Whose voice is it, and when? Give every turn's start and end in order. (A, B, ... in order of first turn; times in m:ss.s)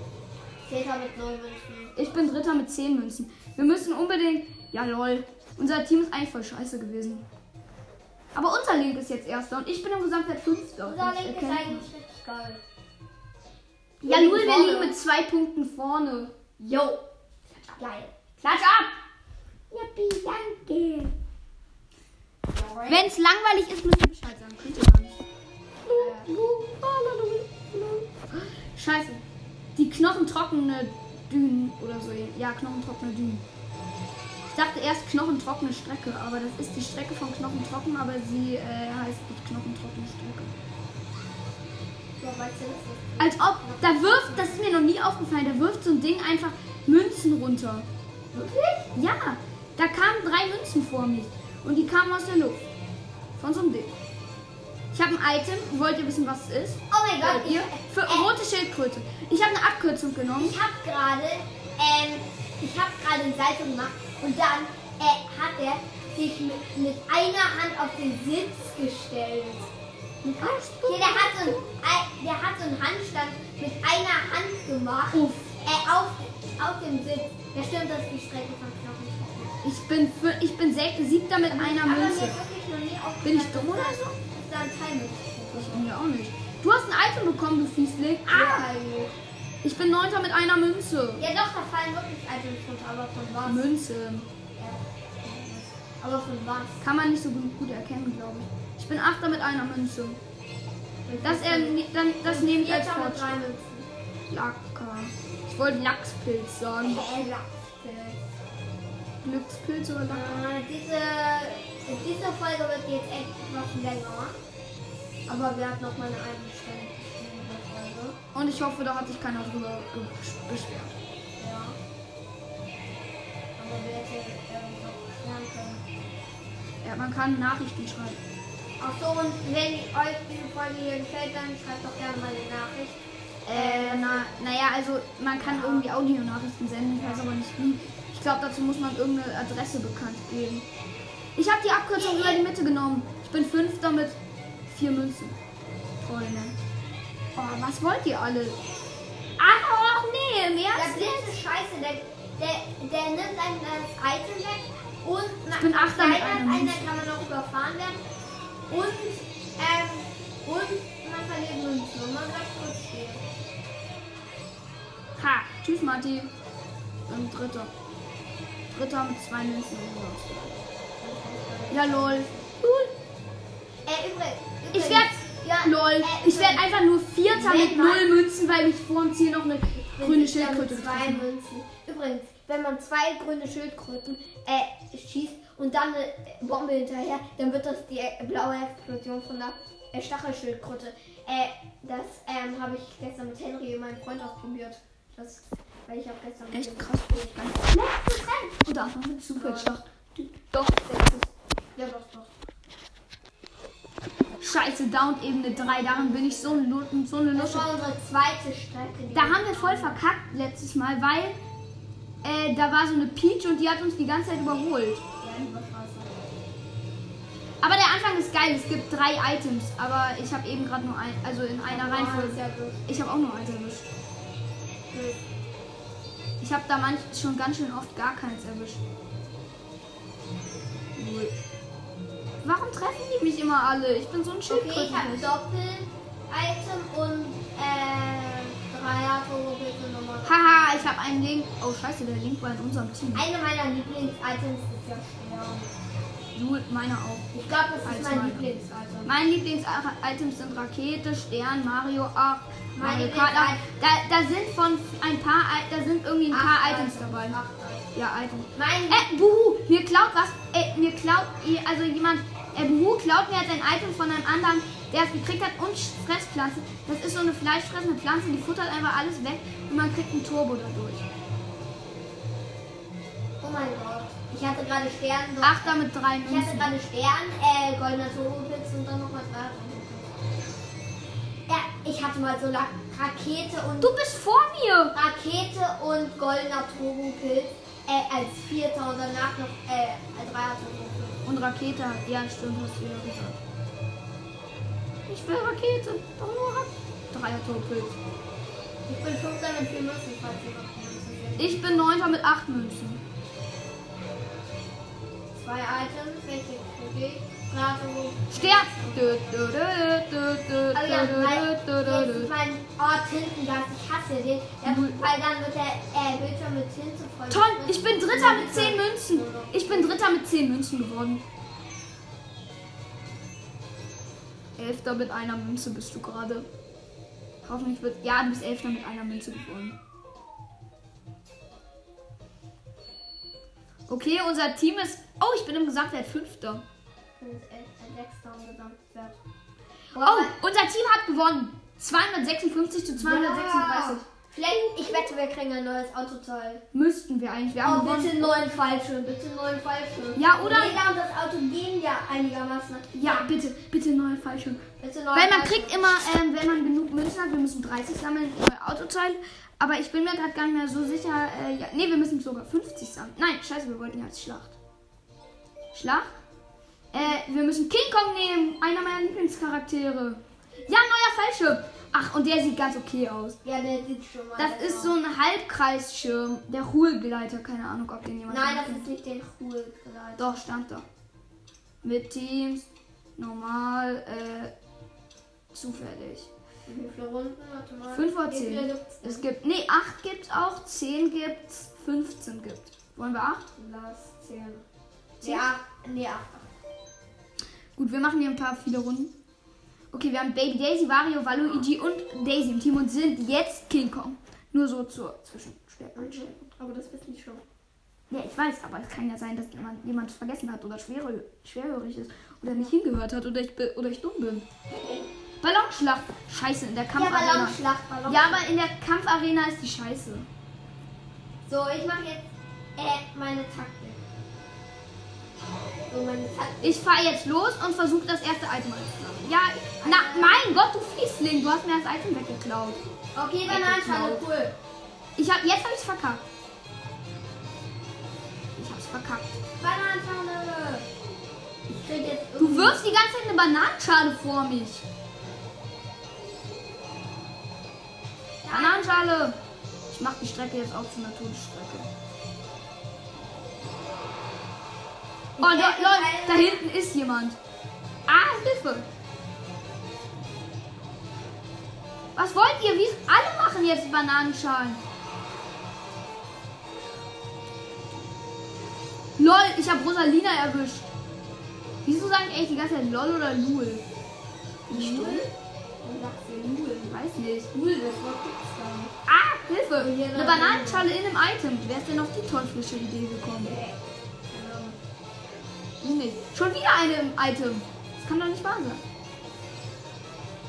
0:00.6-0:02.1 A
0:02.0-0:07.2 B
0:08.3-0:11.9 B
0:10.8-0:12.6 A
0:14.0-0:16.3 B
0:14.0-0:15.0 A
0:16.6-0:17.0 A
0:17.6-0:18.1 A
0:18.4-0:18.9 B
0:19.7-0:21.1 B
0:22.5-0:23.1 A
0:22.9-0:25.2 B
0:25.8-0:29.2 B
0:25.9-0:26.3 A
0:29.7-0:33.4 B
0:34.5-0:40.5 B
0:42.2-0:44.6 A
0:43.2-0:47.9 B
0:48.3-0:48.9 A
0:48.9-0:52.6 B
0:53.4-0:53.9 B
0:54.9-1:00.6 B
0:56.9-0:58.3 A
1:00.4-1:09.7 A
1:10.2-1:11.7 B
1:10.4-1:19.5 A
1:15.1-1:15.5 B
1:19.6-1:22.4 B
1:21.5-1:25.9 A
1:23.2-1:24.2 B
1:25.5-1:28.6 B
1:28.3-1:29.1 A
1:29.6-1:31.2 B
1:31.2-1:33.7 A
1:33.4-1:34.3 B
1:34.6-1:36.8 A
1:36.8-1:40.2 B
1:41.0-1:43.9 A
1:41.2-1:43.4 B
1:44.3-1:47.1 B
1:46.8-1:48.2 A
1:49.2-1:50.4 B
1:50.1-1:54.4 A
1:55.3-1:58.2 A
1:58.3-2:01.0 B
2:01.4-2:01.8 A
2:03.6-2:05.8 A
2:06.8-2:08.2 B
2:08.8-2:13.0 A
2:13.4-2:20.6 B
2:13.5-2:14.4 A
2:15.3-2:15.9 A
2:16.9-2:17.2 A
2:21.4-2:25.4 B
2:21.9-2:22.4 A
2:26.0-2:26.6 B
2:27.4-2:28.6 B
2:29.4-2:31.3 B
2:30.7-2:38.0 A
2:35.5-2:36.9 B
2:38.7-2:43.2 A
2:45.2-2:46.3 B
2:47.1-2:47.7 B
2:48.7-2:50.6 B
2:51.0-2:52.5 A
2:51.7-2:52.9 B
2:53.8-2:56.6 A
2:54.7-3:01.2 B
2:57.3-2:58.1 A
3:00.0-3:17.4 A
3:16.5-3:21.3 B
3:19.3-3:19.8 A
3:21.7-3:22.3 A
3:24.4-3:27.7 B
3:25.5-3:26.7 A
3:27.3-3:30.0 A
3:29.1-3:31.4 B
3:32.2-3:35.0 B
3:35.2-3:36.2 A
3:37.6-3:43.9 B
3:41.6-3:42.8 A
3:44.9-3:45.2 A
3:46.4-3:48.8 B
3:51.0-3:51.3 B
3:52.4-3:55.3 B
3:54.4-4:00.9 A
4:00.2-4:03.2 B
4:03.1-4:05.7 A
4:06.3-4:07.3 B
4:07.3-4:09.1 A
4:07.8-4:08.5 B
4:09.0-4:17.4 B
4:12.7-4:13.7 A
4:16.3-4:17.9 A
4:17.9-4:31.1 B
4:18.5-4:19.1 A
4:33.4-4:40.2 A
4:35.4-4:36.7 B
4:41.5-4:43.9 A
4:43.8-4:45.0 B
4:44.9-4:51.2 A
4:51.2-4:53.4 B
4:55.1-4:58.0 B
4:58.9-5:02.2 A
5:01.4-5:03.0 B
5:05.3-5:09.5 A
5:08.3-5:12.3 B
5:10.7-5:20.2 A
5:14.6-5:15.0 B
5:17.3-5:21.2 B
5:24.6-5:26.5 B
5:27.4-5:29.8 B
5:33.9-5:36.6 B
5:37.2-5:39.2 A
5:39.9-5:40.3 A
5:39.9-5:44.0 B
5:43.0-5:46.6 A
5:46.7-5:48.4 B
5:47.6-5:53.3 A
5:50.2-5:50.8 B
5:52.9-6:04.6 B
5:54.8-5:55.8 A
6:05.7-6:06.2 B
6:06.9-6:13.4 B
6:13.4-6:15.0 A
6:14.4-6:18.9 B
6:18.3-6:20.4 A
6:20.2-6:20.8 B
6:21.8-6:24.5 B
6:25.5-6:26.3 B
6:26.6-6:29.2 A
6:27.9-6:33.4 B
6:33.6-6:34.6 A
6:35.2-6:36.5 A
6:35.2-6:35.5 B
6:37.8-6:39.1 B
6:39.9-6:46.4 B
6:46.0-6:47.4 A
6:48.1-6:54.5 B
6:54.7-6:55.1 A
6:55.4-7:00.3 B
6:56.9-6:58.4 A
7:01.5-7:04.0 A
7:05.9-7:06.8 A
7:06.6-7:12.8 B
7:09.8-7:10.4 A
7:13.1-7:14.5 A
7:13.4-7:14.2 B
7:15.2-7:16.2 B
7:18.6-7:19.4 B
7:19.6-7:20.9 A
7:21.7-7:22.8 A
7:22.4-7:24.8 B
7:28.4-7:29.2 A
7:28.5-7:29.4 B
7:29.9-7:31.9 B
7:35.4-7:36.6 A
7:35.4-7:37.4 B
7:38.1-7:38.9 B
7:42.2-7:44.8 B
7:49.2-7:50.9 B
7:51.8-7:53.8 B
7:54.7-7:55.3 A
7:54.7-7:55.3 B
7:55.8-7:58.9 A
7:56.9-7:57.5 B
7:59.1-8:03.6 B
7:59.8-8:00.9 A
8:03.4-8:04.8 A
8:05.8-8:08.8 B